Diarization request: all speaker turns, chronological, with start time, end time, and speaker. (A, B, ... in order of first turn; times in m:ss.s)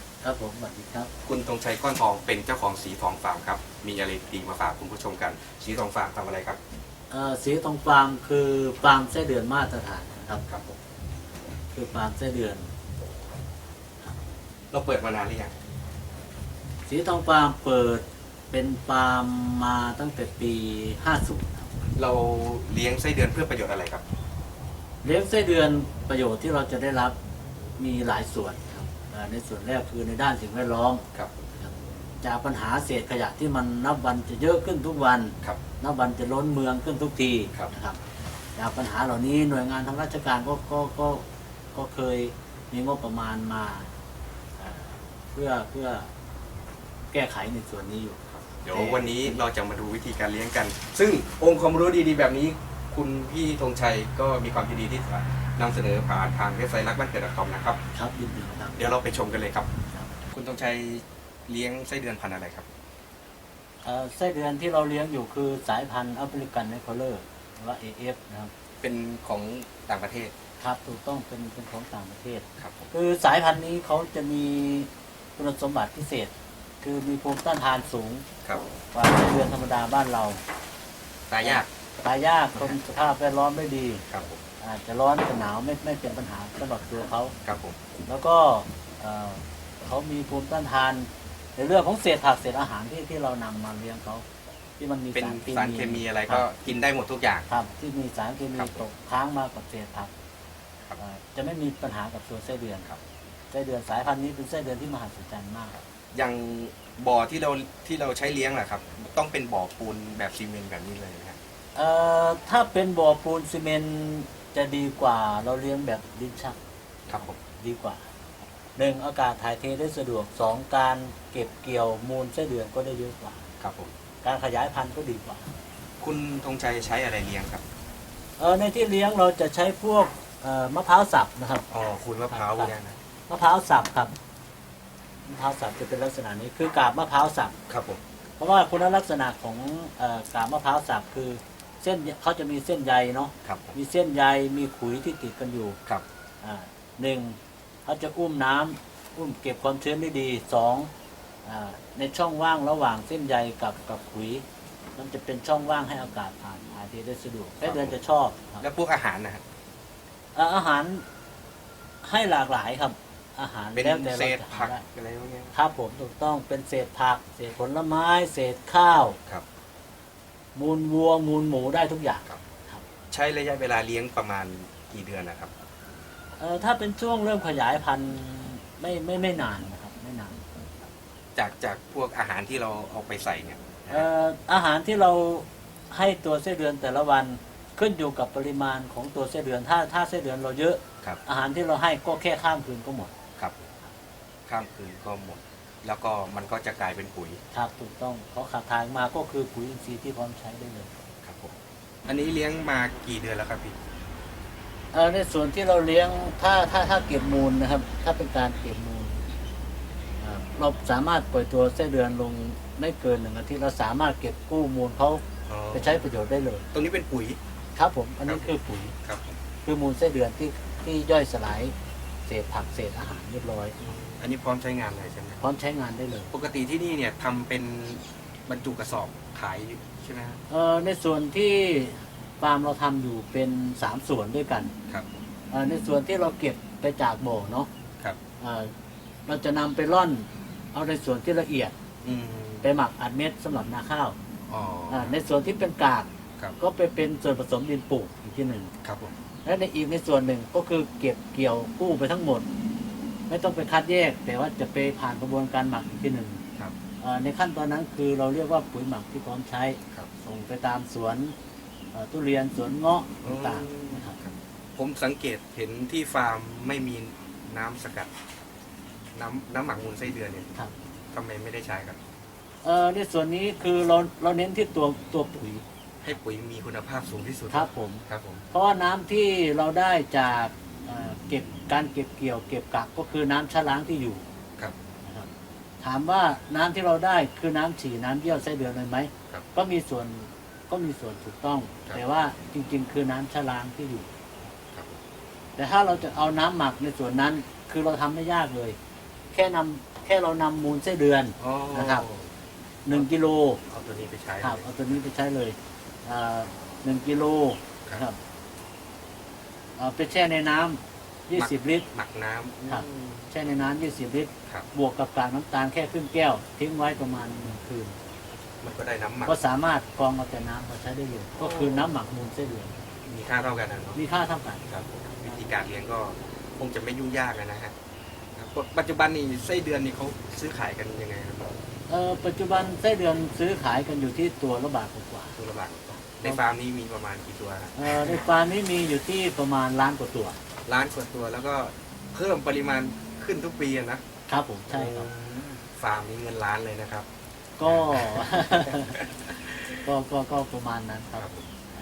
0:00.2-0:01.1 A
0:01.2-0:06.6 B
0:07.1-0:10.4 A
0:10.4-0:10.8 B
0:11.7-0:12.7 A
0:14.7-0:15.5 B
0:16.9-0:21.7 A
0:21.9-0:24.0 B
0:25.0-0:27.2 A
0:27.8-0:31.0 A
0:31.1-0:31.4 B
0:31.6-0:38.0 A
0:38.6-0:43.9 A
0:44.6-0:46.1 A
0:47.1-0:49.4 A
0:48.3-0:57.8 B
0:57.9-0:58.9 A
0:58.8-0:59.7 B
0:59.9-1:00.2 A
1:00.3-1:02.7 B
1:03.8-1:08.5 A
1:08.8-1:10.3 B
1:10.6-1:18.2 A
1:12.6-1:12.9 B
1:18.9-1:20.4 A
1:21.3-1:21.7 B
1:21.4-1:24.0 A
1:24.1-1:24.4 B
1:24.6-1:27.3 A
1:27.4-1:27.8 B
1:28.0-1:34.2 A
1:34.8-1:36.4 A
1:35.1-1:37.4 B
1:37.5-1:40.1 A
1:38.5-1:38.8 B
1:41.0-1:42.8 A
1:43.5-1:45.7 A
1:46.1-1:51.4 B
1:51.7-1:56.6 A
1:57.1-1:57.4 B
1:57.5-1:58.0 A
1:58.8-2:03.4 A
2:03.6-2:03.9 B
2:04.2-2:05.5 A
2:06.0-2:07.6 B
2:08.4-2:11.7 A
2:11.7-2:13.0 B
2:12.3-2:12.7 A
2:13.3-2:14.1 A
2:15.2-2:17.6 A
2:17.7-2:18.0 B
2:18.4-2:25.8 A
2:23.4-2:23.8 B
2:26.4-2:30.9 A
2:31.4-2:34.4 A
2:35.0-2:38.6 A
2:37.6-2:38.0 B
2:38.6-2:39.4 B
2:40.3-2:41.0 A
2:42.0-2:44.8 A
2:43.7-2:45.5 B
2:45.5-2:49.2 A
2:50.5-2:52.8 A
2:53.1-2:55.5 B
2:56.4-3:00.4 A
3:01.4-3:04.1 B
3:03.9-3:13.1 A
3:13.4-3:13.7 B
3:14.5-3:17.4 B
3:17.5-3:20.9 A
3:21.2-3:21.5 B
3:22.0-3:23.8 B
3:24.9-3:29.3 A
3:30.2-3:36.7 A
3:35.5-3:36.1 B
3:36.7-3:37.4 B
3:37.7-3:38.9 A
3:38.2-3:38.5 B
3:39.0-3:39.4 B
3:39.6-3:41.7 A
3:42.2-3:43.8 A
3:43.8-3:45.4 B
3:45.4-3:46.3 A
3:46.3-3:50.4 B
3:50.5-3:54.7 A
3:54.9-3:55.1 B
3:55.5-3:57.7 A
3:58.4-3:58.7 A
3:59.3-4:01.7 A
4:02.0-4:02.7 B
4:02.6-4:04.2 A
4:04.5-4:05.2 B
4:04.9-4:08.7 A
4:08.8-4:09.1 B
4:09.4-4:12.5 A
4:13.3-4:16.4 A
4:17.0-4:21.3 A
4:21.9-4:24.2 A
4:23.2-4:28.1 B
4:29.1-4:30.6 B
4:31.1-4:32.0 B
4:32.6-4:35.6 A
4:36.0-4:38.4 B
4:37.5-4:44.2 A
4:45.0-4:54.1 A
4:54.7-4:55.0 B
4:55.6-4:58.8 A
4:59.3-5:02.0 A
5:01.4-5:02.3 B
5:02.8-5:03.6 A
5:03.6-5:05.0 B
5:04.4-5:08.2 A
5:09.8-5:11.9 A
5:11.4-5:13.3 B
5:12.7-5:18.0 A
5:18.6-5:19.4 B
5:19.2-5:22.8 A
5:21.4-5:21.9 B
5:23.0-5:24.0 B
5:23.9-5:24.6 A
5:24.7-5:27.7 B
5:28.4-5:31.6 B
5:31.9-5:35.4 A
5:35.4-5:38.2 B
5:36.0-5:36.4 A
5:37.7-5:40.4 A
5:40.6-5:44.0 B
5:44.3-5:45.1 A
5:44.7-5:47.1 B
5:47.6-5:49.0 A
5:47.6-5:49.6 B
5:49.7-5:51.3 A
5:51.2-5:51.5 B